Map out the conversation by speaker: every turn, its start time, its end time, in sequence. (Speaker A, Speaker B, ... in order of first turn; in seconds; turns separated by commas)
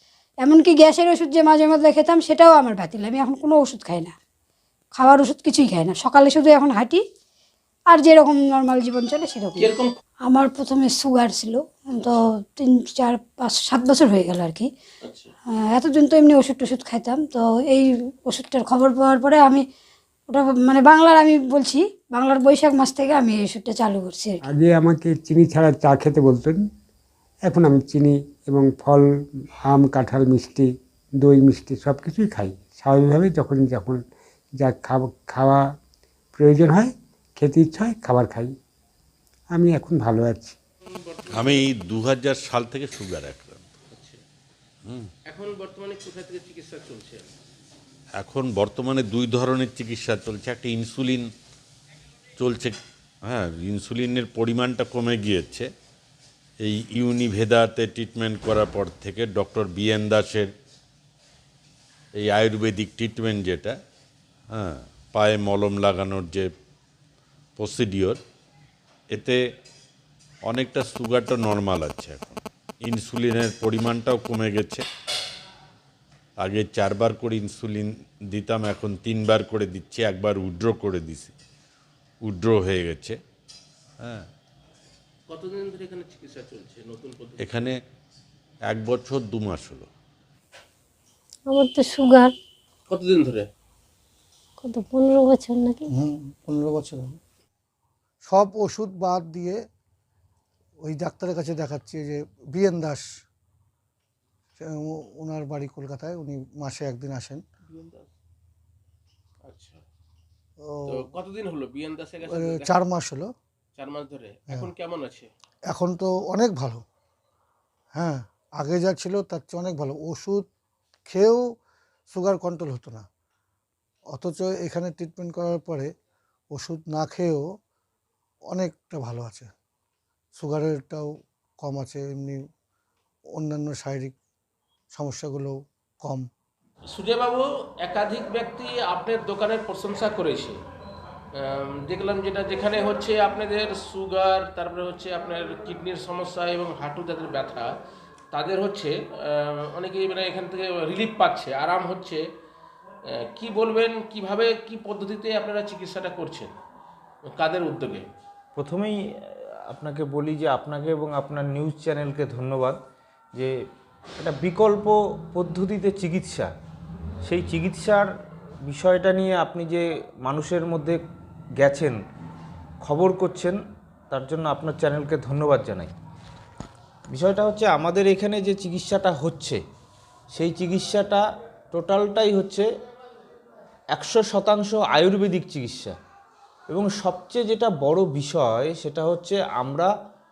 Speaker A: 0.4-4.1, Speaker A: 4.9-7.0, Speaker A: 7.9-9.7, Speaker B: 9.6-9.9, Speaker A: 10.2-14.7, Speaker B: 15.0-15.3, Speaker A: 15.7-19.6, Speaker A: 20.3-24.4, Speaker C: 24.5-26.6, Speaker C: 27.5-29.0, Speaker C: 29.6-34.0, Speaker C: 34.6-35.7, Speaker C: 36.4-38.5, Speaker C: 39.6-40.5, Speaker B: 40.9-41.7, Speaker D: 41.3-43.7, Speaker B: 43.9-44.2, Speaker B: 45.3-47.3, Speaker D: 48.2-51.3, Speaker D: 52.4-55.7, Speaker D: 56.6-60.5, Speaker D: 62.2-63.8, Speaker D: 64.5-66.5, Speaker D: 67.6-68.2, Speaker D: 69.1-69.4, Speaker D: 70.5-74.9, Speaker D: 76.4-81.3, Speaker D: 82.2-83.2, Speaker D: 84.0-84.3, Speaker B: 85.3-87.6, Speaker D: 87.4-87.7, Speaker D: 88.7-89.9, Speaker E: 91.5-92.3, Speaker B: 92.9-93.5, Speaker E: 94.6-95.9, Speaker F: 95.9-97.2, Speaker F: 98.2-99.6, Speaker F: 100.8-103.1, Speaker F: 104.6-107.4, Speaker B: 107.7-108.1, Speaker B: 109.5-109.8, Speaker F: 110.6-111.1, Speaker B: 110.9-112.8, Speaker F: 112.2-113.3, Speaker B: 113.8-115.3, Speaker F: 115.7-116.8, Speaker F: 117.9-120.5, Speaker F: 121.1-121.5, Speaker F: 122.1-123.1, Speaker F: 124.1-125.9, Speaker F: 126.5-127.5, Speaker F: 128.5-129.5, Speaker F: 130.4-132.4, Speaker F: 133.3-134.2, Speaker F: 134.9-136.3, Speaker B: 136.9-140.6, Speaker B: 141.4-147.7, Speaker B: 148.3-152.2, Speaker B: 153.4-156.5, Speaker B: 157.3-158.1, Speaker G: 158.6-162.8, Speaker G: 164.2-166.5, Speaker G: 167.2-168.1, Speaker G: 168.7-171.0, Speaker G: 171.6-172.0, Speaker G: 172.8-173.6, Speaker G: 174.1-175.9, Speaker G: 177.1-179.6, Speaker G: 180.3-182.7, Speaker G: 183.9-186.0, Speaker G: 186.7-189.9